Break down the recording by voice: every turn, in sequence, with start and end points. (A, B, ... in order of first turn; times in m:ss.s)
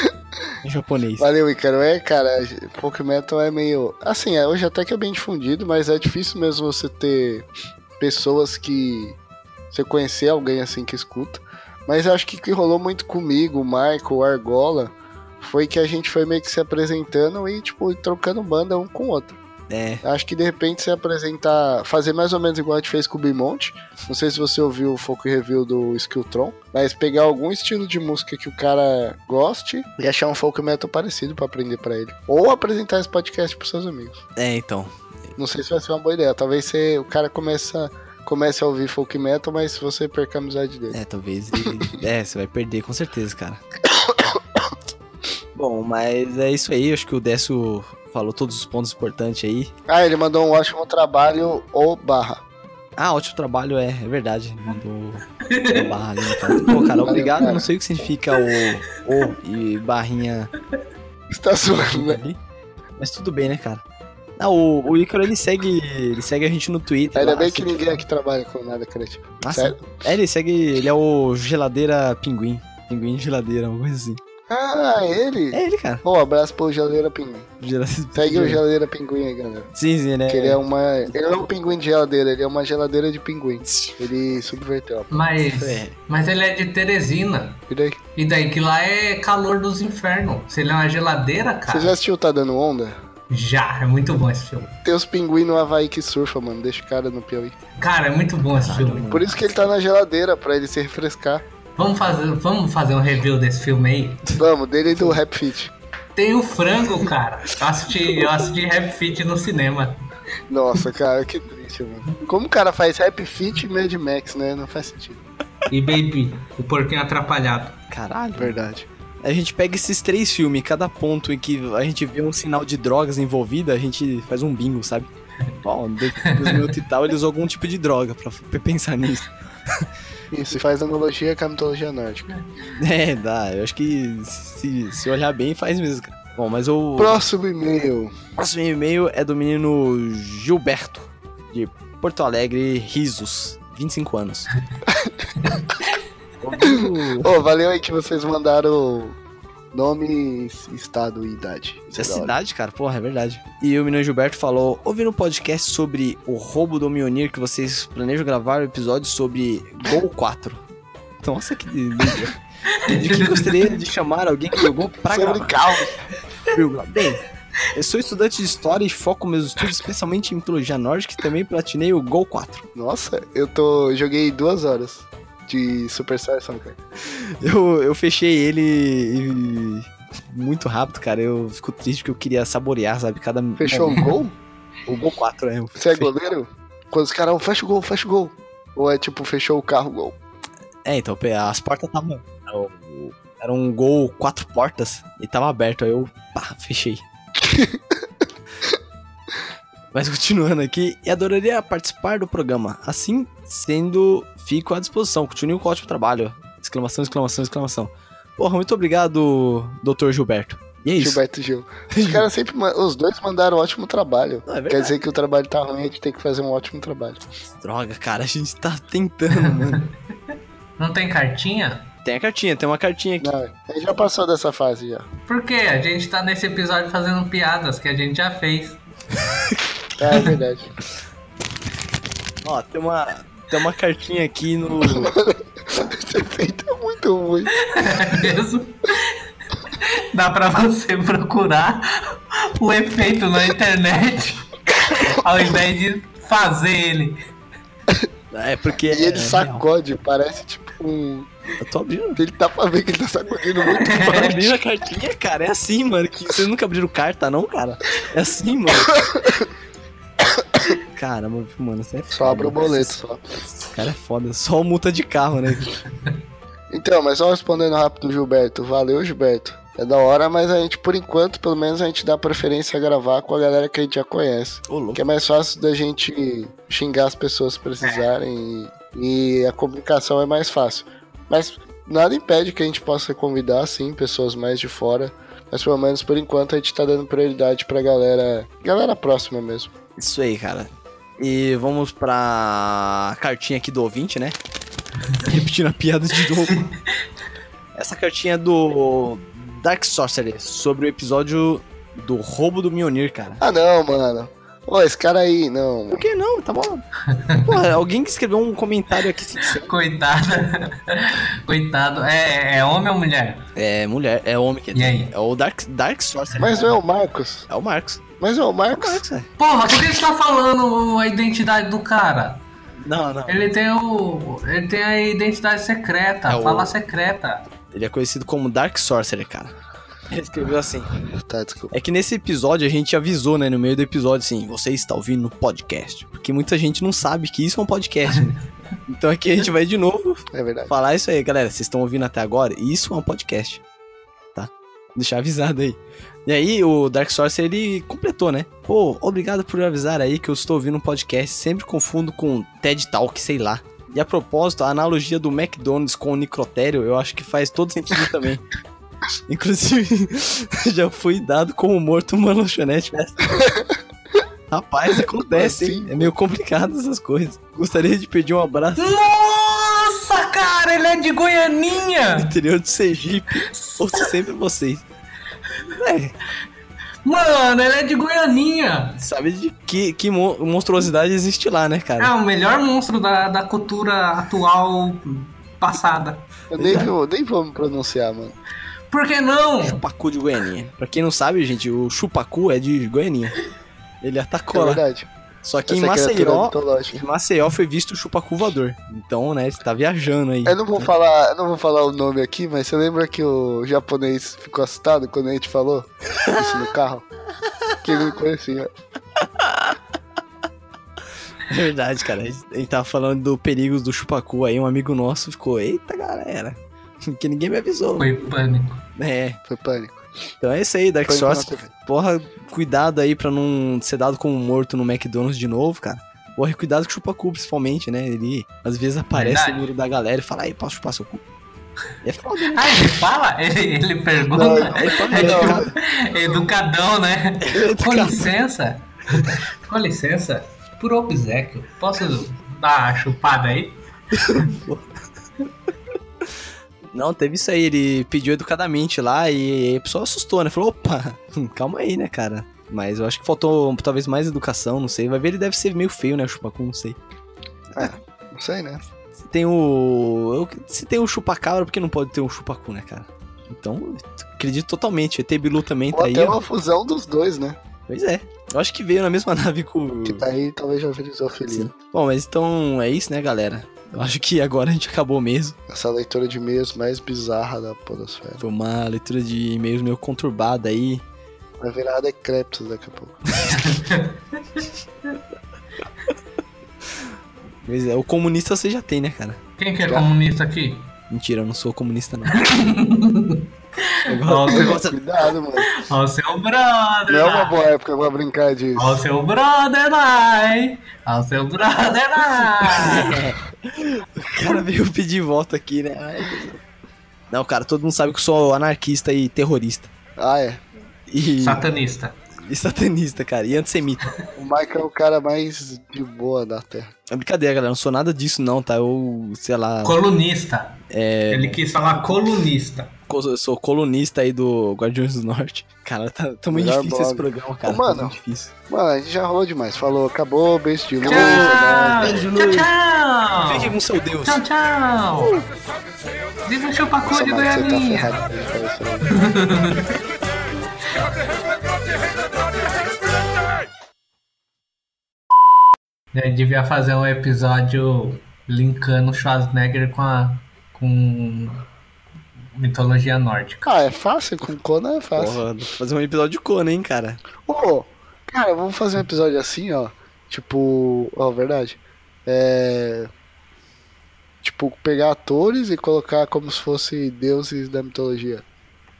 0:00.6-0:01.3 A
0:01.2-0:07.5 B
0:08.0-0:09.2 B
0:09.7-0:19.4 B
0:19.7-0:20.0 A
0:20.0-0:34.2 B
0:34.4-0:34.9 A
0:35.4-0:41.0 B
0:40.9-0:43.6 A
0:43.9-0:44.4 B
0:45.5-0:49.7 A
0:49.9-0:52.4 B
0:53.0-1:00.5 A
0:55.4-0:57.0 C
0:57.0-0:57.7 B
1:01.3-1:02.2 B
1:01.7-1:02.4 A
1:03.0-1:03.8 A
1:04.4-1:08.0 A
1:07.1-1:09.9 B
1:09.4-1:14.2 A
1:14.5-1:17.5 B
1:15.5-1:16.0 A
1:17.6-1:18.6 A
1:18.1-1:19.7 B
1:19.7-1:20.6 A
1:20.3-1:25.1 B
1:23.6-1:24.0 A
1:25.1-1:27.6 C
1:25.5-1:25.9 A
1:27.7-1:28.0 B
1:28.2-1:31.9 C
1:31.7-1:33.0 B
1:33.3-1:34.7 C
1:34.8-1:37.6 B
1:37.8-1:39.0 C
1:38.5-1:39.4 A
1:39.1-1:41.4 B
1:41.8-1:44.2 C
1:44.4-1:45.7 B
1:44.9-1:45.2 A
1:46.2-1:50.0 C
1:50.5-1:55.2 B
1:55.7-1:57.8 C
1:57.9-1:58.6 A
1:58.4-1:58.9 B
1:59.2-2:05.1 A
2:05.6-2:09.9 A
2:06.4-2:06.7 C
2:10.3-2:12.4 B
2:12.8-2:17.2 A
2:17.0-2:18.1 B
2:18.4-2:24.5 A
2:26.4-2:27.3 A
2:26.6-2:29.2 B
2:29.7-2:32.3 B
2:31.9-2:40.6 A
2:41.2-2:45.6 A
2:42.8-2:43.6 C
2:45.1-2:46.0 B
2:46.5-2:47.2 A
2:47.7-2:52.6 A
2:52.7-2:56.8 B
2:57.1-3:04.1 A
3:03.6-3:04.3 B
3:04.8-3:06.1 A
3:05.8-3:10.2 B
3:10.8-3:17.0 A
3:17.4-3:17.8 B
3:19.9-3:31.2 A
3:31.0-3:37.2 B
3:31.9-3:32.3 A
3:34.4-3:34.9 A
3:37.5-3:39.8 A
3:39.4-3:39.8 C
3:40.8-3:41.9 C
3:42.0-3:43.3 A
3:43.2-3:45.0 B
3:45.3-3:48.8 C
3:50.0-3:50.7 B
3:52.4-3:55.1 A
3:55.0-3:57.5 B
3:57.7-3:59.0 C
3:59.7-4:04.5 C
4:04.9-4:05.2 B
4:05.2-4:07.2 C
4:08.3-4:09.6 A
4:08.9-4:11.3 B
4:11.6-4:12.2 A
4:12.2-4:14.0 B
4:13.7-4:14.5 C
4:13.9-4:19.0 A
4:20.9-4:23.0 A
4:22.1-4:23.2 B
4:23.5-4:25.7 A
4:26.7-4:49.7 B
4:34.7-4:35.0 A
4:50.0-4:54.4 A
4:55.2-4:56.6 A
4:57.7-5:03.4 A
5:03.4-5:06.0 B
5:05.9-5:06.8 A
5:07.1-5:07.5 C
5:07.5-5:09.7 A
5:09.4-5:13.5 C
5:13.6-5:16.7 A
5:14.7-5:15.1 C
5:16.4-5:17.5 B
5:17.5-5:18.0 A
5:18.2-5:19.0 B
5:18.7-5:19.3 A
5:19.4-5:22.4 C
5:22.8-5:23.5 A
5:23.3-5:27.4 C
5:26.3-5:26.7 A
5:27.7-5:29.5 A
5:30.1-5:30.9 A
5:31.2-5:31.7 B
5:31.7-5:43.6 A
5:40.3-5:40.7 B
5:44.3-5:58.4 A
5:59.3-6:03.3 A
6:04.5-6:08.9 A
6:05.2-6:06.1 B
6:08.8-6:12.3 C
6:12.1-6:14.8 A
6:13.4-6:14.1 C
6:15.7-6:16.1 A
6:17.0-6:19.0 C
6:19.0-6:22.1 A
6:22.0-6:26.3 C
6:26.5-6:28.4 B
6:26.6-6:26.9 A
6:28.9-6:29.8 C
6:29.6-6:33.4 A
6:34.0-6:34.8 A
6:34.5-6:35.1 B
6:35.4-6:40.9 A
6:35.7-6:37.0 B
6:40.4-6:47.0 B
6:46.2-6:46.7 A
6:47.8-6:48.7 B
6:49.2-6:49.8 A
6:51.5-6:58.1 A
6:58.0-6:58.8 C
6:59.0-6:59.4 A
6:59.4-7:00.0 B
7:00.4-7:11.2 A
7:01.1-7:01.7 B
7:09.1-7:09.7 C
7:12.0-7:12.9 A
7:12.5-7:23.8 C
7:14.3-7:15.7 B
7:14.6-7:15.7 A
7:17.4-7:18.2 A
7:24.1-7:24.9 A
7:26.9-7:37.0 A
7:37.8-7:38.8 B
7:39.2-7:46.4 A
7:45.9-7:47.6 B
7:47.9-7:50.2 A
7:50.0-7:51.7 B
7:51.5-7:55.6 A
7:55.7-7:58.4 B
7:58.4-8:01.0 A
8:01.6-8:03.2 B
8:03.5-8:04.6 C
8:07.6-8:09.4 A
8:09.6-8:10.9 C
8:11.1-8:12.5 A
8:12.3-8:14.8 C
8:14.1-8:15.0 A
8:14.5-8:15.8 B
8:15.8-8:17.6 C
8:17.1-8:19.0 B
8:18.8-8:23.1 C
8:22.7-8:26.6 A
8:27.3-8:29.9 A
8:30.2-8:30.6 B
8:31.1-8:31.6 A
8:31.4-8:32.2 C
8:32.4-8:34.1 A
8:34.4-8:36.9 B
8:37.1-8:40.0 A
8:39.8-8:40.8 C
8:40.9-8:42.4 A
8:41.3-8:42.9 C
8:43.1-8:48.5 A
8:46.5-8:48.2 B
8:48.7-8:52.3 B
8:51.0-8:52.7 A
8:51.0-8:55.3 C
8:53.4-8:54.4 A
8:55.1-8:55.5 A
8:56.4-8:58.1 C
8:57.0-8:59.0 B
8:59.2-8:59.8 C
9:06.1-9:11.6 C
9:12.6-9:13.7 C
9:13.6-9:15.4 B
9:15.2-9:17.2 A
9:17.4-9:23.1 B
9:24.4-9:28.4 B